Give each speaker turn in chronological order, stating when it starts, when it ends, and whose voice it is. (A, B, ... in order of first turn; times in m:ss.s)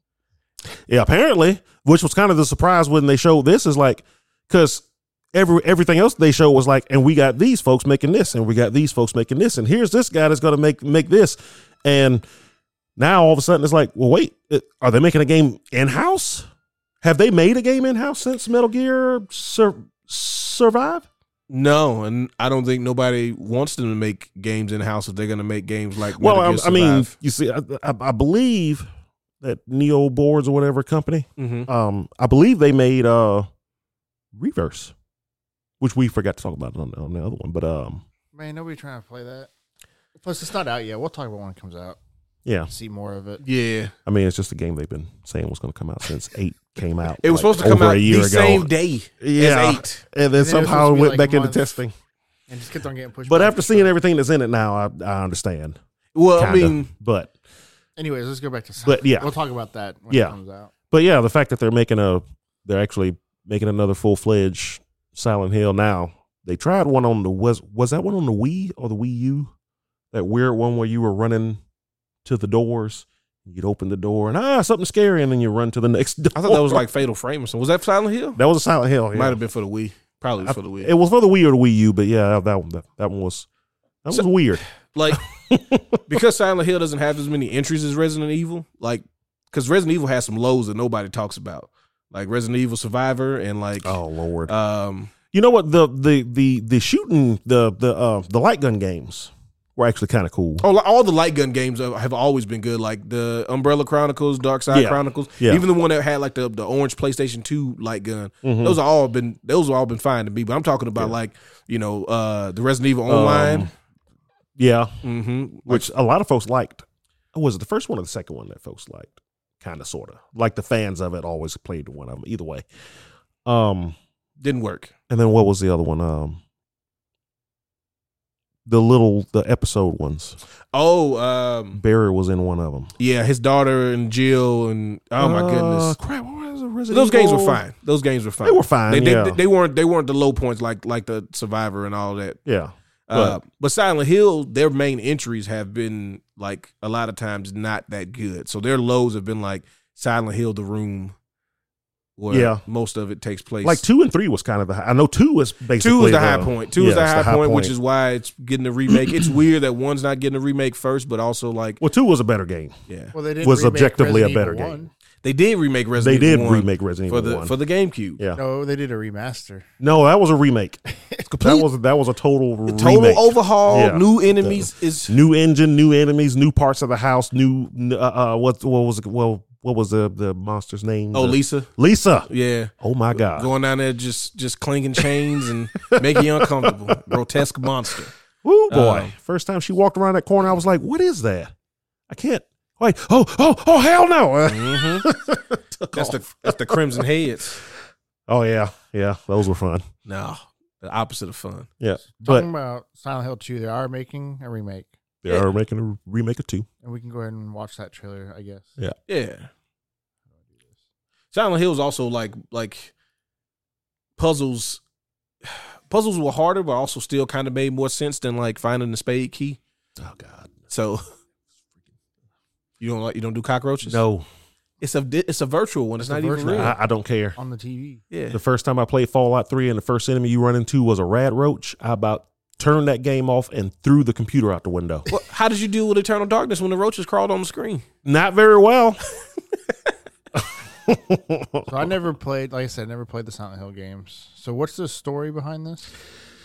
0:00.9-0:12.2 A
0:13.0-0:16.5 A
0:17.0-0:21.0 A
0:21.5-0:27.1 B
0:26.1-0:28.9 A
0:29.4-0:33.5 A
0:31.4-0:31.7 B
0:34.3-0:34.9 A
0:35.8-0:38.0 A
0:38.3-0:39.5 C
0:40.2-0:42.0 C
0:42.4-0:42.7 A
0:42.7-0:43.4 C
0:43.4-0:43.9 B
0:44.0-0:51.9 A
0:47.2-0:50.0 B
0:50.3-0:51.8 C
0:52.5-0:53.9 C
0:53.2-0:55.8 A
0:56.1-0:56.9 B
0:56.4-0:57.3 A
0:58.0-1:00.7 C
0:58.8-0:59.3 A
1:00.1-1:00.4 A
1:00.9-1:09.5 A
1:10.1-1:11.6 A
1:12.2-1:16.8 A
1:16.3-1:18.4 B
1:18.4-1:19.4 A
1:19.1-1:20.9 B
1:20.4-1:23.5 A
1:24.0-1:26.2 A
1:24.9-1:25.2 B
1:26.1-1:35.1 B
1:33.8-1:34.5 A
1:35.3-1:40.6 A
1:40.6-1:53.7 B
1:44.7-1:45.6 A
1:48.4-1:48.8 A
1:53.1-1:53.7 A
1:54.6-1:55.0 A
1:55.0-1:55.9 B
1:55.6-2:02.6 A
2:03.4-2:04.0 A
2:04.4-2:04.9 B
2:05.1-2:06.4 A
2:08.6-2:10.4 A
2:10.7-2:11.8 B
2:11.7-2:12.9 A
2:13.0-2:16.0 B
2:15.2-2:17.6 A
2:16.9-2:22.4 B
2:18.4-2:19.4 A
2:22.4-2:23.4 A
2:23.1-2:31.1 B
2:32.2-2:33.8 B
2:32.3-2:32.6 A
2:33.6-2:37.7 A
2:35.8-2:41.8 B
2:38.9-2:39.3 A
2:41.8-2:42.7 A
2:42.9-2:43.1 B
2:43.1-2:44.9 C
2:43.4-2:44.8 A
2:45.2-2:48.2 B
2:46.0-2:47.5 A
2:48.3-2:49.7 C
2:49.8-3:03.5 A
2:52.7-2:55.1 B
3:01.1-3:01.7 B
3:02.3-3:08.1 B
3:05.9-3:07.2 A
3:08.4-3:11.5 A
3:08.7-3:09.1 B
3:12.1-3:17.0 A
3:14.4-3:15.1 B
3:15.9-3:17.6 B
3:18.3-3:19.8 A
3:20.0-3:21.7 B
3:21.8-3:22.5 A
3:22.2-3:25.0 C
3:25.2-3:26.7 A
3:26.8-3:28.7 C
3:29.1-3:29.5 B
3:31.3-3:32.9 B
3:34.2-3:34.8 B
3:35.4-3:39.6 B
3:40.0-3:40.6 A
3:40.7-3:41.0 B
3:42.8-3:44.0 B
3:43.8-3:44.2 A
3:44.8-3:46.7 B
3:46.0-3:46.8 C
3:46.4-3:47.4 A
3:47.4-3:48.0 C
3:48.1-3:48.4 B
3:48.3-3:55.1 A
3:55.1-3:57.8 B
3:58.0-3:59.0 A
4:00.3-4:01.9 A
4:01.7-4:05.9 C